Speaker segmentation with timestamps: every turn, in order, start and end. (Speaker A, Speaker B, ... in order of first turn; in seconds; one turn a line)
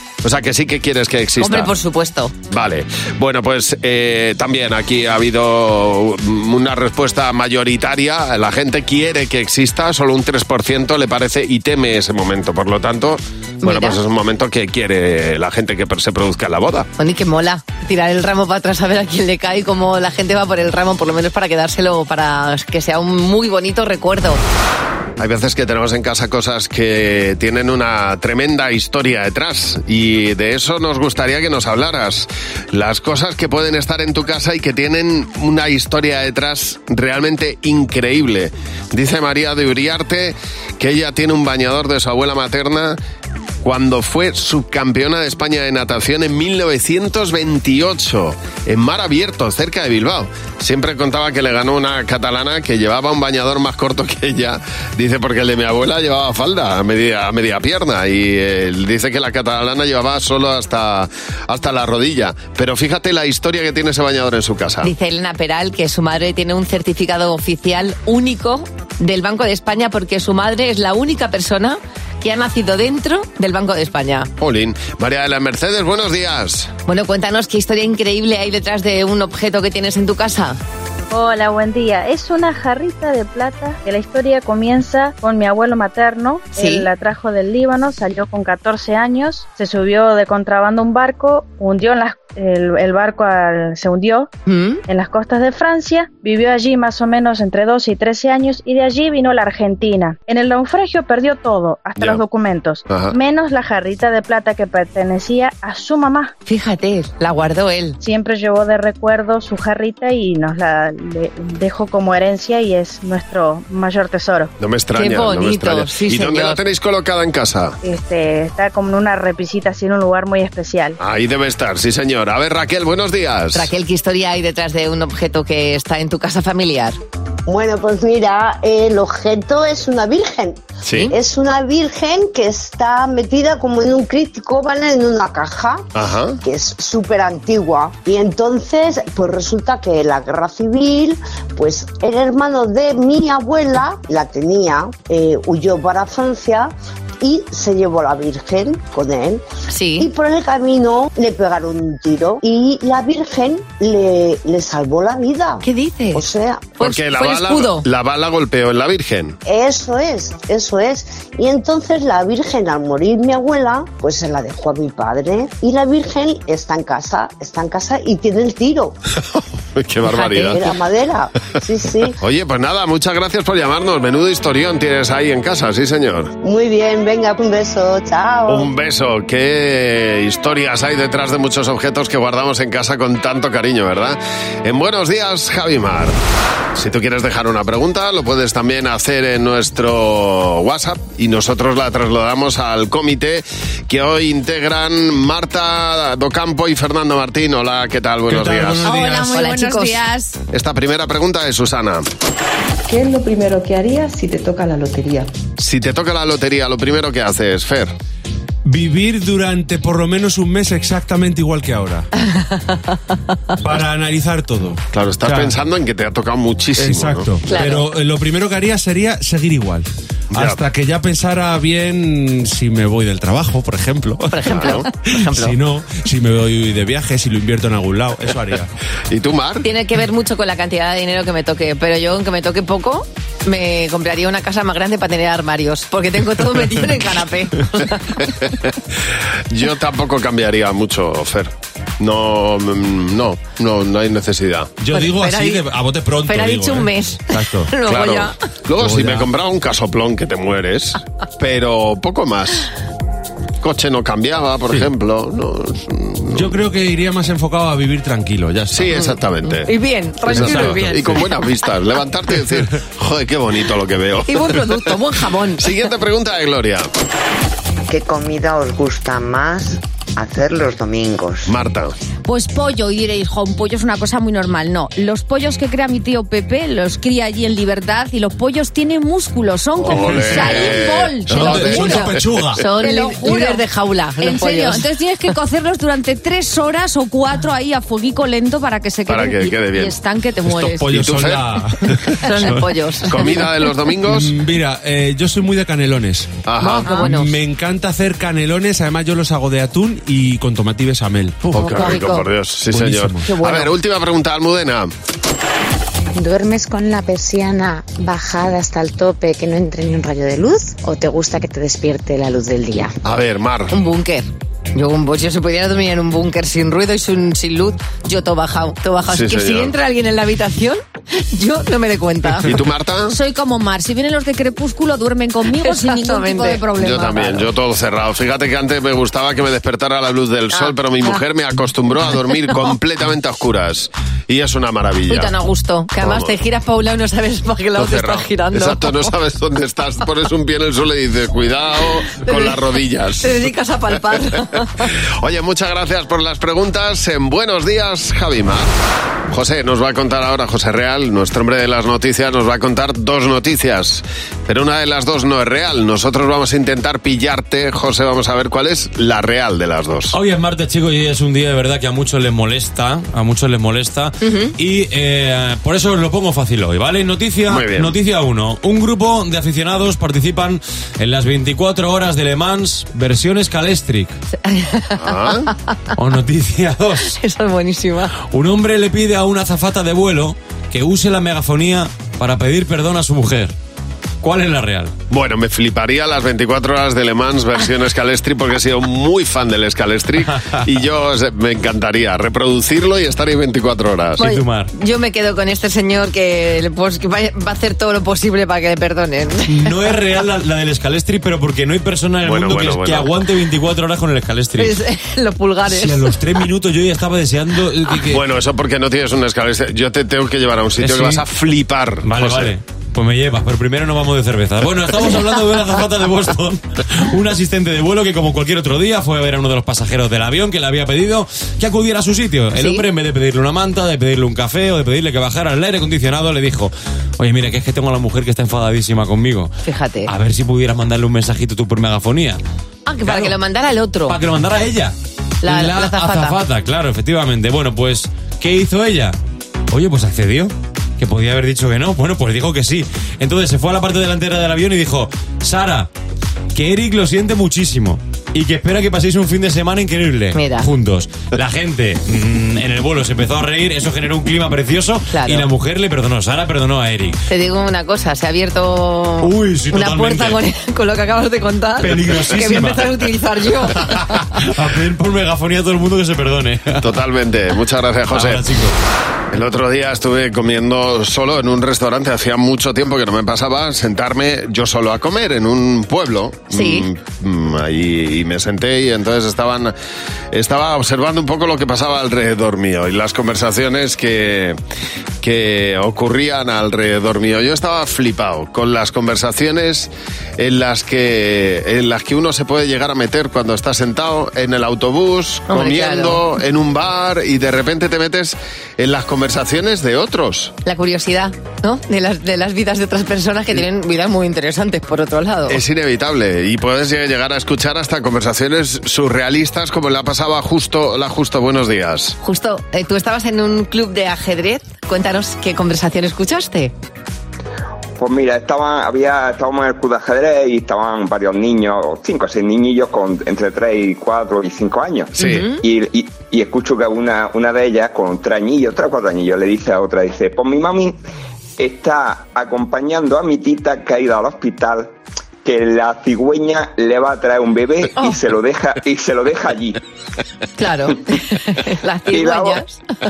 Speaker A: 0.2-1.7
Speaker B: 1.4-2.3
Speaker A: 2.5-16.9
Speaker B: 13.6-14.0
Speaker B: 17.0-24.4
Speaker A: 25.2-43.0
Speaker A: 43.6-64.9
Speaker B: 64.8-74.3
Speaker A: 74.4-76.7
Speaker B: 76.9-80.6
Speaker C: 81.1-94.3
Speaker B: 86.5-86.9
Speaker B: 94.5-94.8
Speaker C: 94.9-106.3
Speaker A: 102.9-103.1
Speaker B: 106.5-108.0
Speaker C: 108.0-114.5
Speaker A: 114.6-117.8
Speaker B: 114.9-116.6
Speaker C: 117.8-121.0
Speaker A: 121.0-123.7
Speaker B: 123.5-127.0
Speaker D: 127.5-135.8
Speaker A: 130.8-131.1
Speaker A: 135.9-136.4
Speaker D: 136.4-149.4
Speaker B: 149.7-150.1
Speaker D: 150.0-156.7
Speaker B: 155.6-156.2
Speaker B: 156.8-157.8
Speaker A: 156.8-159.4
Speaker D: 159.4-168.9
Speaker A: 169.3-170.7
Speaker D: 170.1-172.2
Speaker B: 170.2-170.5
Speaker A: 172.2-176.3
Speaker D: 176.4-178.7
Speaker A: 178.5-186.2
Speaker A: 186.7-198.8
Speaker E: 198.3-199.2
Speaker F: 198.8-200.4
Speaker B: 198.8-200.0
Speaker A: 200.5-202.1
Speaker G: 202.9-205.3
Speaker A: 205.6-207.9
Speaker E: 208.6-212.1
Speaker B: 212.3-212.8
Speaker E: 213.6-215.6
Speaker A: 214.9-217.3
Speaker E: 216.8-228.7
Speaker B: 217.5-217.9
Speaker A: 220.3-220.6
Speaker B: 224.3-225.5
Speaker A: 224.5-224.8
Speaker A: 229.1-229.6
Speaker B: 229.6-238.3
Speaker A: 239.5-244.7
Speaker E: 244.8-247.7
Speaker B: 244.9-245.7
Speaker B: 246.2-248.3
Speaker A: 247.8-252.7
Speaker E: 248.8-249.3
Speaker A: 253.6-256.6
Speaker E: 256.3-259.0
Speaker A: 258.7-259.7
Speaker B: 258.9-261.4
Speaker A: 260.2-264.9
Speaker E: 260.3-261.1
Speaker B: 264.3-265.7
Speaker A: 265.6-266.9
Speaker H: 267.9-271.5
Speaker A: 271.5-271.9
Speaker F: 272.2-282.0
Speaker A: 279.8-282.1
Speaker E: 281.3-282.6
Speaker B: 281.7-282.0
Speaker B: 282.6-284.9
Speaker F: 282.6-283.6
Speaker F: 284.2-290.9
Speaker A: 289.1-290.0
Speaker E: 290.4-291.9
Speaker A: 290.8-291.6
Speaker B: 292.2-293.4
Speaker A: 293.1-294.3
Speaker E: 294.0-302.0
Speaker A: 296.4-296.9
Speaker B: 296.6-297.3
Speaker F: 296.8-297.1
Speaker A: 301.5-304.9
Speaker B: 301.6-302.2
Speaker E: 302.7-303.3
Speaker B: 303.3-303.7
Speaker I: 306.1-312.9
Speaker A: 313.0-313.7
Speaker B: 313.7-322.5
Speaker A: 319.1-319.7
Speaker A: 322.4-323.1
Speaker F: 323.1-327.4
Speaker B: 325.5-326.6
Speaker A: 326.8-335.3
Speaker B: 330.5-331.2
Speaker B: 335.1-339.1
Speaker A: 336.0-336.3
Speaker A: 337.8-343.4
Speaker B: 342.1-342.6
Speaker B: 343.2-344.9
Speaker A: 345.2-348.7
Speaker A: 349.3-360.1
Speaker J: 360.1-374.1
Speaker B: 364.2-364.5
Speaker A: 367.5-367.9
Speaker B: 374.4-375.8
Speaker A: 375.0-375.5
Speaker J: 375.9-377.1
Speaker B: 377.1-378.1
Speaker J: 378.1-383.5
Speaker J: 384.2-384.9
Speaker A: 385.1-394.2
Speaker J: 394.2-394.7
Speaker B: 394.2-399.7
Speaker J: 399.5-404.8
Speaker A: 402.2-403.1
Speaker B: 404.6-406.1
Speaker J: 405.7-408.2
Speaker A: 408.1-412.5
Speaker J: 410.8-411.2
Speaker J: 412.0-429.5
Speaker B: 422.5-422.8
Speaker B: 429.6-430.1
Speaker J: 430.1-432.4
Speaker B: 432.9-434.2
Speaker J: 433.0-433.3
Speaker J: 434.1-439.2
Speaker B: 435.4-436.4
Speaker J: 439.7-445.9
Speaker J: 446.5-457.2
Speaker B: 450.3-450.7
Speaker B: 455.1-455.5
Speaker B: 457.3-464.2
Speaker J: 459.2-460.4
Speaker J: 461.8-462.9
Speaker J: 463.9-466.9
Speaker A: 466.8-468.4
Speaker J: 468.1-468.7
Speaker A: 469.3-479.7
Speaker B: 476.5-476.9
Speaker A: 480.3-484.6
Speaker A: 485.2-500.5
Speaker B: 495.5-496.2
Speaker B: 500.6-505.6
Speaker A: 505.5-512.2
Speaker B: 512.2-516.7
Speaker K: 518.0-531.0
Speaker A: 525.2-525.5
Speaker B: 525.2-525.6
Speaker K: 531.6-539.8
Speaker B: 540.6-542.8
Speaker K: 542.1-542.6